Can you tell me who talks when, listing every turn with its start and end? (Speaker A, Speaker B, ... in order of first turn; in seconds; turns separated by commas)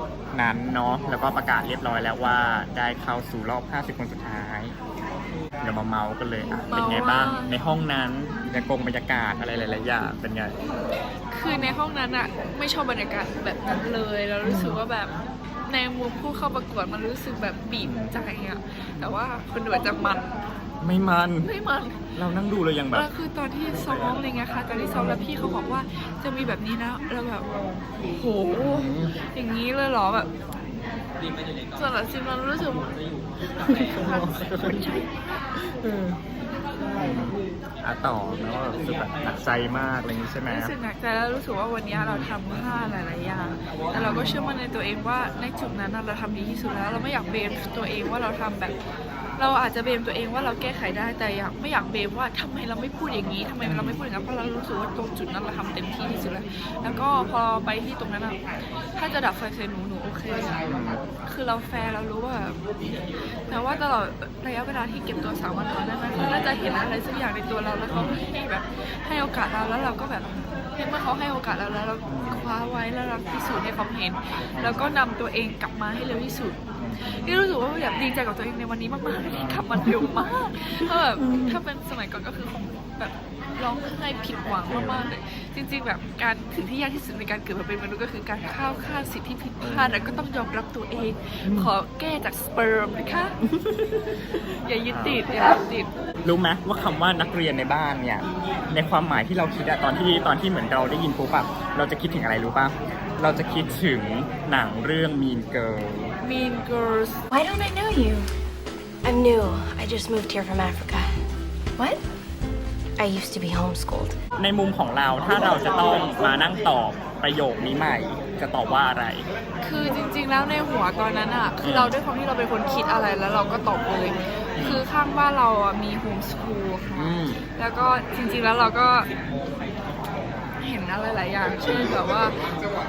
Speaker A: 0.3-4.8, Speaker A: 5.6-10.5, Speaker B: 6.7-7.5, Speaker B: 10.7-15.1, Speaker A: 11.5-11.8, Speaker A: 14.4-14.8, Speaker B: 15.7-20.3, Speaker A: 17.8-18.1, Speaker A: 20.8-21.5, Speaker B: 21.4-22.1, Speaker A: 22.2-23.1, Speaker B: 22.9-27.5, Speaker A: 23.8-24.2, Speaker B: 28.0-30.3, Speaker A: 28.6-29.1, Speaker B: 31.8-32.9, Speaker B: 33.5-35.1, Speaker A: 33.7-34.9, Speaker A: 35.6-36.2, Speaker A: 37.0-40.8, Speaker B: 40.5-48.8, Speaker A: 43.9-44.3, Speaker B: 49.4-58.4, Speaker A: 53.6-54.0, Speaker B: 59.0-60.7, Speaker A: 60.6-61.0, Speaker B: 61.2-62.6, Speaker B: 63.4-93.4, Speaker A: 67.9-68.2, Speaker A: 72.0-72.4, Speaker A: 74.5-74.8, Speaker A: 76.8-77.4, Speaker A: 79.3-79.8, Speaker A: 81.2-81.6, Speaker A: 84.7-85.1, Speaker A: 89.6-90.2, Speaker A: 91.4-91.7, Speaker A: 93.4-94.3, Speaker B: 94.5-95.9, Speaker A: 94.9-95.2, Speaker A: 96.2-106.2, Speaker B: 106.2-107.2, Speaker C: 107.3-108.3, Speaker C: 109.0-111.2, Speaker C: 111.8-112.0, Speaker C: 113.0-114.2, Speaker A: 114.4-119.3, Speaker B: 119.6-129.1, Speaker A: 121.6-122.0, Speaker A: 124.6-124.8, Speaker A: 126.9-127.4, Speaker B: 130.6-132.6